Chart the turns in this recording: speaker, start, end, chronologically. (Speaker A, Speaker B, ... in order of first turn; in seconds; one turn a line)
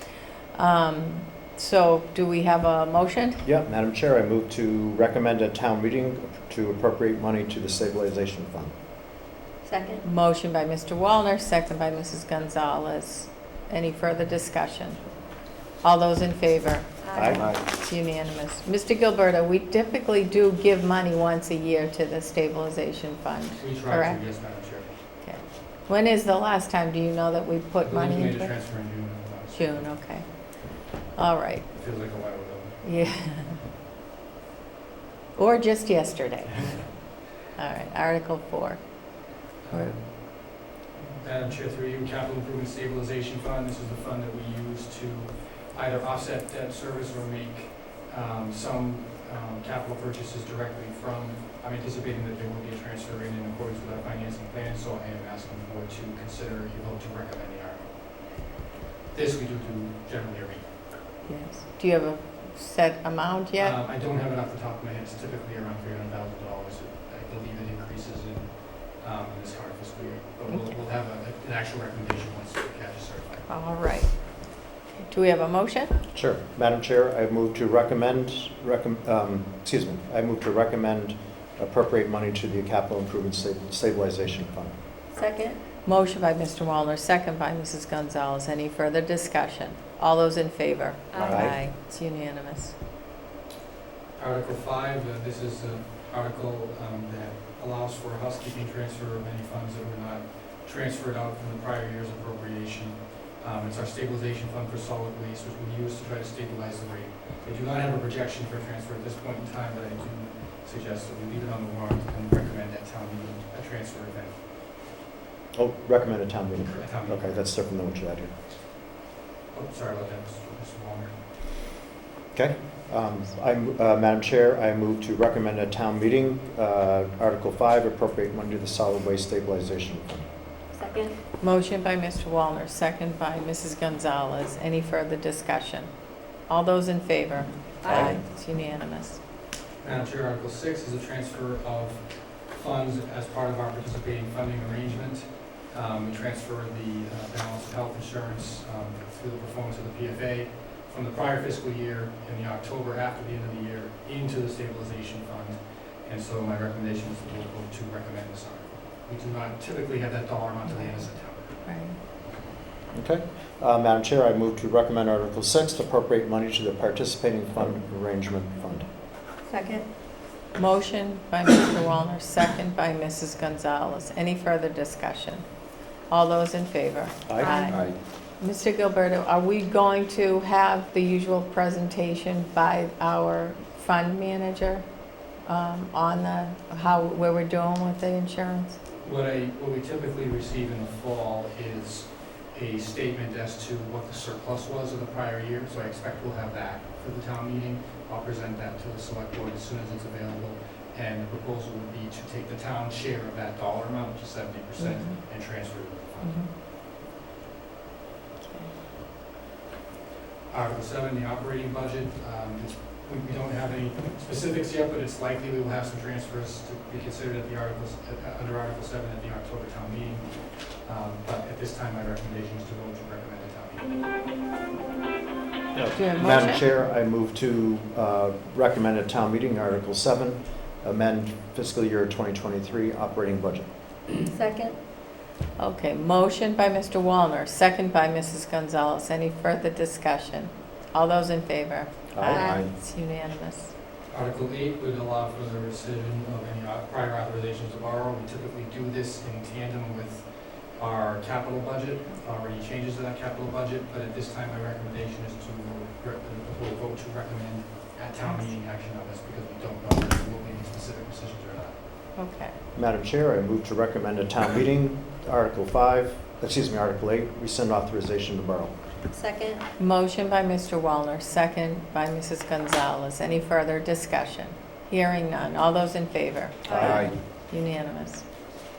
Speaker A: 0.5-3.4
Speaker B: 3.4-8.7
Speaker C: 9.6-10.0
Speaker A: 10.0-15.0
Speaker A: 15.8-24.2
Speaker C: 17.0-17.5
Speaker B: 17.1-17.6
Speaker D: 23.6-24.9
Speaker A: 25.2-28.5
Speaker D: 27.8-29.9
Speaker A: 29.5-30.2
Speaker A: 31.1-31.6
Speaker D: 31.7-33.1
Speaker A: 32.8-33.6
Speaker A: 35.4-36.7
Speaker A: 37.5-38.8
Speaker D: 39.6-40.5
Speaker D: 41.2-58.0
Speaker D: 59.1-60.7
Speaker A: 61.2-63.8
Speaker D: 63.5-73.5
Speaker A: 70.5-70.8
Speaker A: 73.5-74.1
Speaker A: 75.0-76.0
Speaker B: 76.1-84.7
Speaker C: 85.1-85.6
Speaker A: 85.8-92.7
Speaker C: 91.1-91.5
Speaker B: 91.2-91.6
Speaker D: 94.2-114.3
Speaker B: 115.5-118.3
Speaker D: 116.5-117.4
Speaker D: 119.5-121.1
Speaker B: 122.3-130.1
Speaker C: 130.7-131.1
Speaker A: 131.4-135.9
Speaker A: 136.5-139.2
Speaker C: 137.8-138.2
Speaker B: 137.9-138.2
Speaker D: 139.8-161.5
Speaker A: 160.7-161.1
Speaker A: 161.6-162.0
Speaker B: 162.9-168.8
Speaker C: 169.5-169.9
Speaker A: 170.6-175.4
Speaker A: 176.1-177.8
Speaker B: 177.3-177.9
Speaker C: 177.4-177.8
Speaker A: 178.4-184.8
Speaker A: 185.4-188.8
Speaker D: 188.9-206.4
Speaker A: 204.8-205.2
Speaker A: 206.2-206.5
Speaker D: 210.5-220.3
Speaker D: 220.8-224.0
Speaker B: 225.8-233.7
Speaker A: 225.9-226.7
Speaker C: 234.3-234.8
Speaker A: 235.6-243.7
Speaker B: 242.1-242.7
Speaker C: 242.3-242.6
Speaker D: 244.1-261.7
Speaker A: 258.2-258.5
Speaker A: 262.2-262.5
Speaker B: 262.7-268.7
Speaker C: 269.1-269.6
Speaker A: 269.8-278.2
Speaker C: 276.6-277.1